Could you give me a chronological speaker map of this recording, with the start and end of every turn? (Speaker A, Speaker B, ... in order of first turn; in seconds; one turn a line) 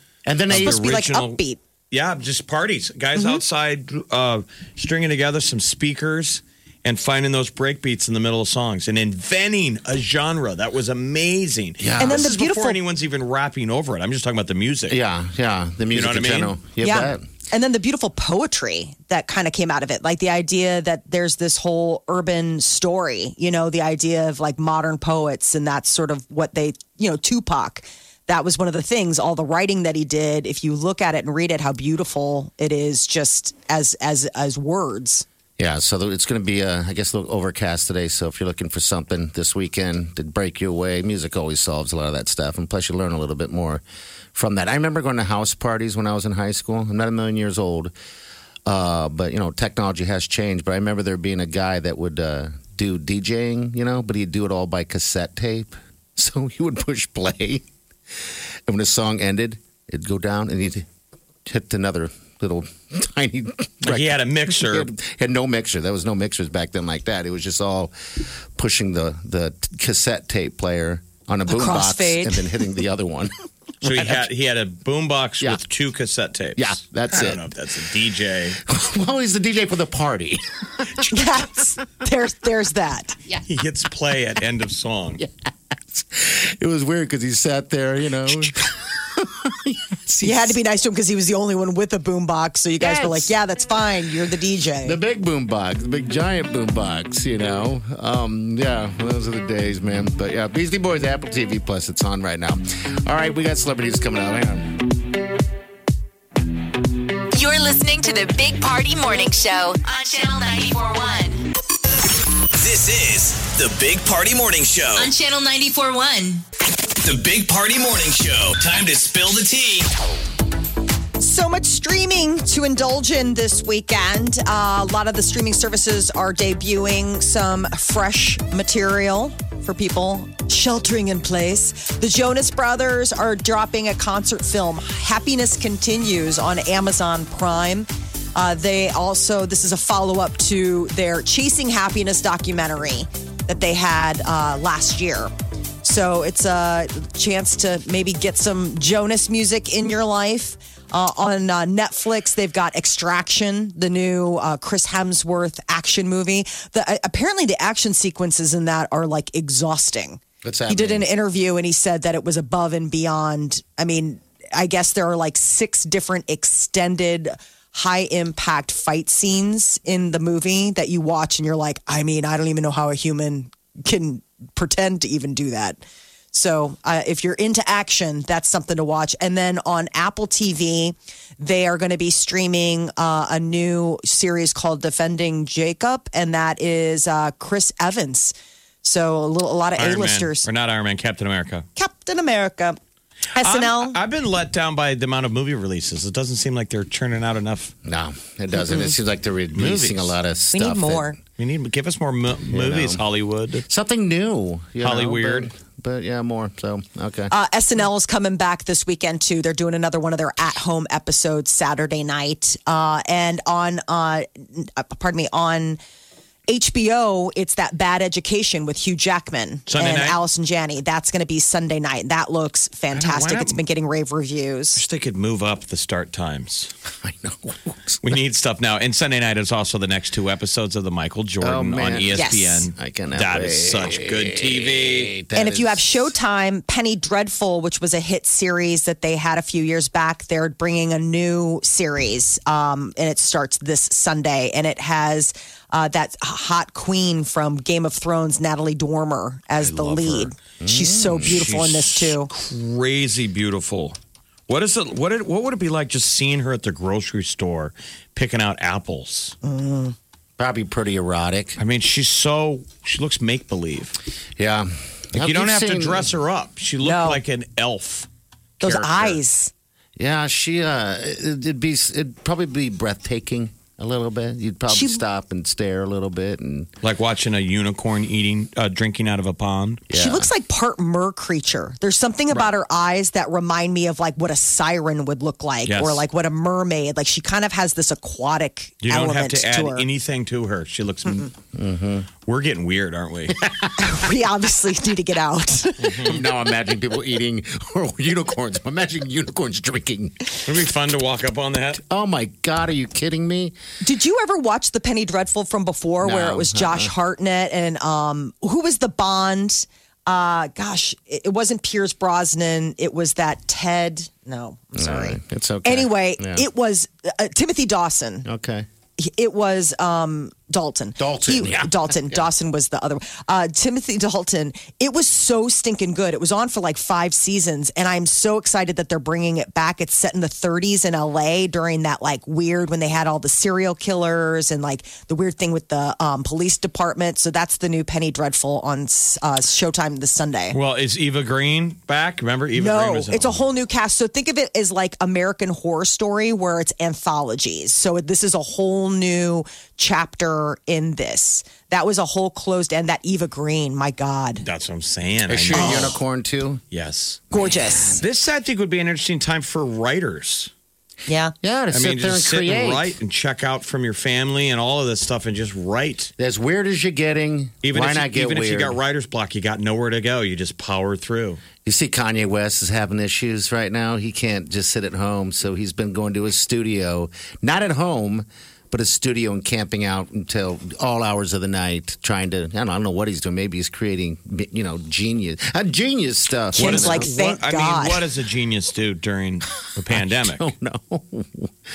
Speaker A: 0.2-0.9
Speaker B: 0.5-1.4
Speaker C: 0.5-1.6
Speaker B: 1.9-15.0
Speaker C: 3.1-3.4
Speaker A: 11.8-12.3
Speaker C: 12.0-12.8
Speaker A: 14.9-17.2
Speaker B: 15.9-16.6
Speaker C: 16.8-35.2
Speaker A: 35.6-43.8
Speaker A: 44.3-47.9
Speaker A: 48.6-57.7
Speaker A: 58.7-60.9
Speaker A: 61.5-73.3
Speaker B: 63.8-64.9
Speaker C: 71.5-72.6
Speaker B: 73.8-78.6
Speaker A: 73.8-74.3
Speaker A: 76.6-77.5
Speaker A: 78.6-81.1
Speaker C: 81.1-83.2
Speaker B: 83.4-85.2
Speaker A: 85.9-90.6
Speaker C: 90.2-95.0
Speaker A: 92.8-93.3
Speaker A: 94.8-104.8
Speaker D: 107.3-111.4
Speaker E: 112.5-115.1
Speaker D: 115.0-116.4
Speaker E: 117.0-119.9
Speaker C: 121.2-145.3
Speaker C: 145.8-175.8
Speaker A: 160.4-161.0
Speaker C: 176.3-190.5
Speaker B: 189.8-191.7
Speaker C: 191.8-192.8
Speaker C: 193.3-194.0
Speaker B: 193.4-197.7
Speaker A: 197.8-201.1
Speaker C: 198.6-198.9
Speaker B: 199.5-200.1
Speaker C: 200.5-201.2
Speaker B: 201.4-203.7
Speaker A: 202.5-203.0
Speaker A: 203.7-207.3
Speaker B: 204.8-205.5
Speaker C: 207.3-215.8
Speaker C: 216.5-224.8
Speaker B: 219.7-220.2
Speaker B: 222.9-223.6
Speaker B: 224.7-226.7
Speaker A: 227.0-228.1
Speaker B: 228.0-235.1
Speaker A: 231.4-236.1
Speaker C: 232.1-232.6
Speaker C: 235.3-252.3
Speaker B: 249.6-250.3
Speaker A: 250.6-251.3
Speaker B: 251.2-253.9
Speaker B: 254.5-259.3
Speaker C: 259.4-259.9
Speaker A: 260.4-261.6
Speaker B: 261.6-263.9
Speaker A: 264.4-266.1
Speaker B: 265.1-268.1
Speaker C: 266.8-267.2
Speaker B: 268.6-269.2
Speaker C: 268.6-269.5
Speaker A: 270.0-276.7
Speaker C: 274.7-275.0
Speaker B: 276.8-279.8
Speaker A: 279.9-280.3
Speaker C: 279.9-289.9
Speaker B: 285.7-286.0
Speaker B: 288.8-291.3
Speaker A: 291.5-292.1
Speaker B: 292.2-293.4
Speaker A: 293.3-294.0
Speaker C: 293.8-296.1
Speaker B: 295.8-296.2
Speaker A: 296.0-300.4
Speaker B: 300.4-301.8
Speaker A: 301.8-303.5
Speaker C: 303.8-318.3
Speaker A: 306.0-306.9
Speaker A: 314.7-316.4
Speaker A: 318.2-318.7
Speaker C: 319.0-340.5
Speaker A: 321.0-322.2
Speaker B: 340.5-343.4
Speaker C: 342.5-354.4
Speaker B: 354.4-355.9
Speaker A: 355.2-356.6
Speaker C: 355.5-355.9
Speaker B: 356.7-357.2
Speaker C: 357.3-358.0
Speaker B: 358.0-360.5
Speaker C: 361.1-361.3
Speaker A: 361.4-362.9
Speaker B: 361.7-366.1
Speaker A: 366.2-368.8
Speaker B: 367.6-371.4
Speaker A: 371.6-387.1
Speaker C: 386.5-388.0
Speaker B: 386.6-390.5
Speaker A: 389.9-391.5